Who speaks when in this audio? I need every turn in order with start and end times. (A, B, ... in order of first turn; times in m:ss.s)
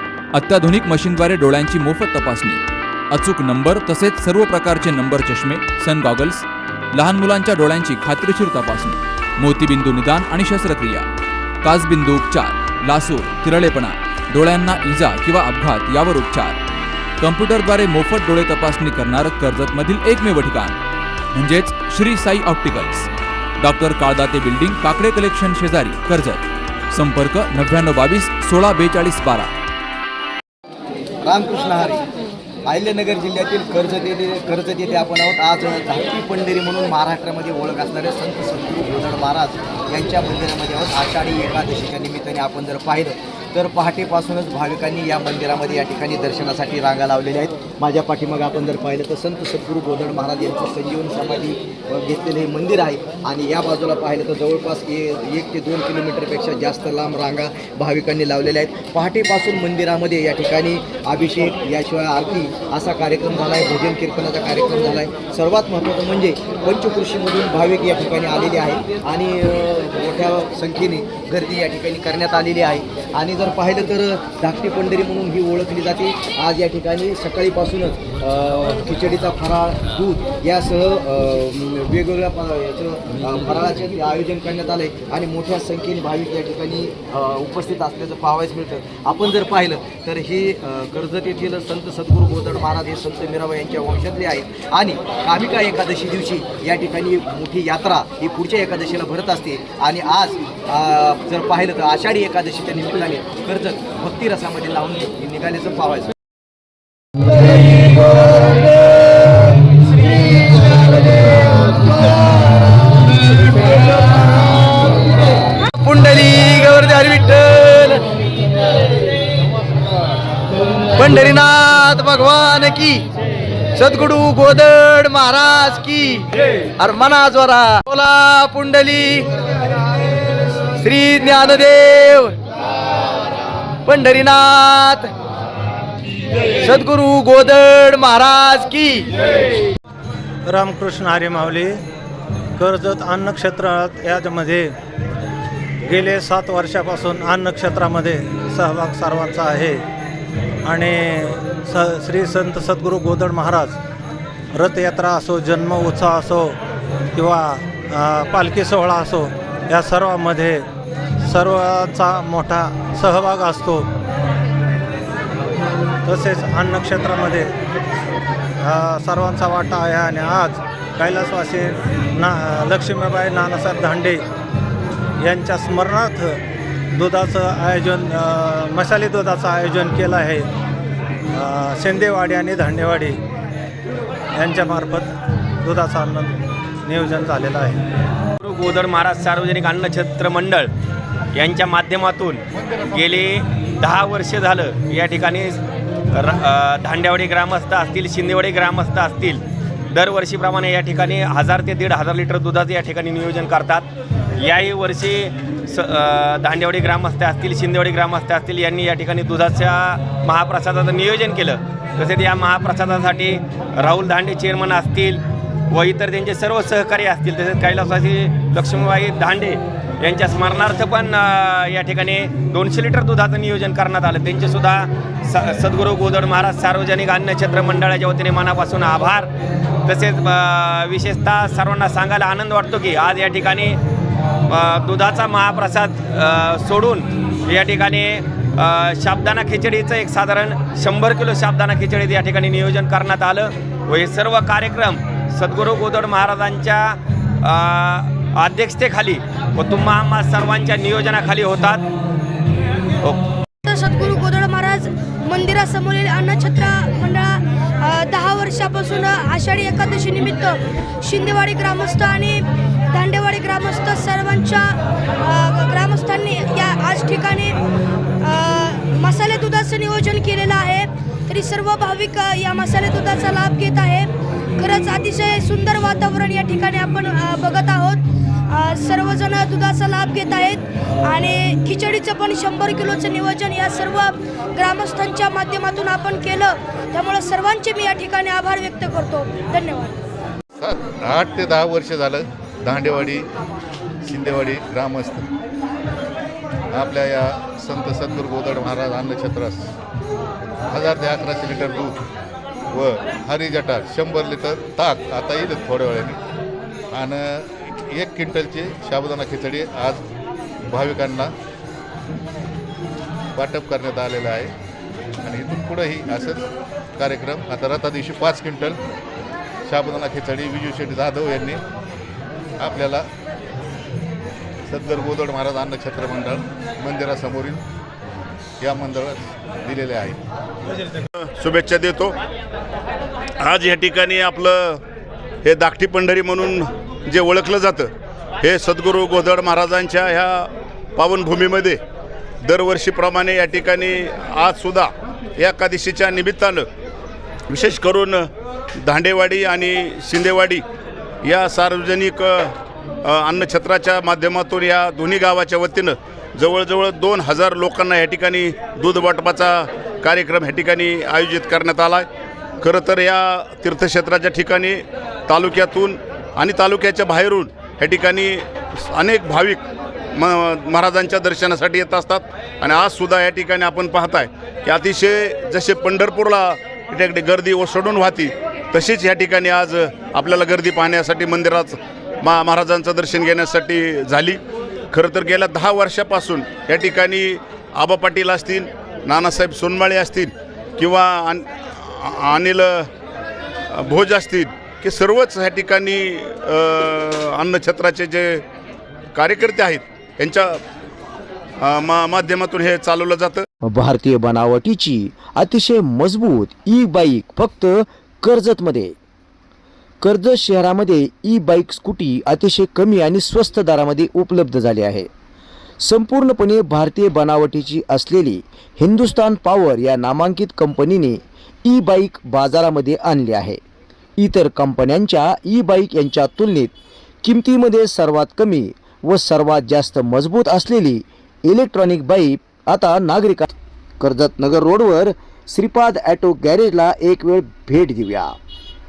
0:00.3-0:11.0 A
0:11.6-0:16.6 A
0:17.2-0:20.8 A
0:21.3-0:29.5 A
0:31.2-0:32.0 B
0:32.7-1:46.1 B
1:55.8-1:58.0 B
2:01.0-2:03.0 B
2:03.8-2:06.2 B
2:04.1-2:04.7 C
2:06.8-2:09.2 B
2:06.9-2:07.4 C
2:08.2-2:09.1 C
2:10.8-2:12.3 B
2:10.9-2:11.9 C
2:13.9-2:15.1 B
2:14.0-2:14.7 C
2:16.6-2:18.1 B
2:16.7-2:18.9 C
2:20.4-2:21.8 D
2:22.6-2:24.7 D
2:25.8-2:29.8 D
2:30.6-2:33.8 D
2:34.5-2:36.6 D
2:37.1-2:40.6 D
2:41.2-2:43.8 D
2:46.0-2:47.5 D
2:48.6-2:54.2 D
2:55.2-2:56.4 D
2:56.9-3:00.5 D
3:01.3-3:03.2 D
3:04.3-3:07.8 D
3:08.4-3:10.7 E
3:11.4-3:15.6 E
3:16.1-3:23.9 E
3:24.4-3:49.3 E
3:49.8-3:53.8 E
3:54.5-4:11.8 E
4:13.6-4:27.6 F
4:28.2-4:50.0 F
4:50.6-4:53.2 G
4:54.0-4:55.2 G
4:56.7-4:59.7 G
5:00.7-5:02.0 G
5:02.7-5:06.2 G
5:06.9-5:10.0 G
5:10.7-5:11.3 G
5:13.4-5:14.5 G
5:15.2-5:18.8 G
5:19.6-5:21.6 G
5:22.6-5:23.0 G
5:24.7-5:27.6 G
5:28.6-5:30.2 G
5:31.1-5:32.1 H
5:33.4-5:34.8 H
5:35.4-5:41.8 H
5:42.4-5:46.7 H
5:47.5-5:48.3 H
5:48.8-5:50.6 H
5:51.2-5:52.5 H
5:53.0-6:02.1 H
6:02.6-6:09.6 H
6:10.1-6:24.4 H
6:24.9-6:32.9 H
6:33.7-6:38.4 H
6:39.1-6:40.6 H
6:41.6-6:43.4 H
6:43.6-6:48.9 C
6:50.0-6:55.1 C
6:55.8-7:03.6 C
7:04.2-7:18.3 C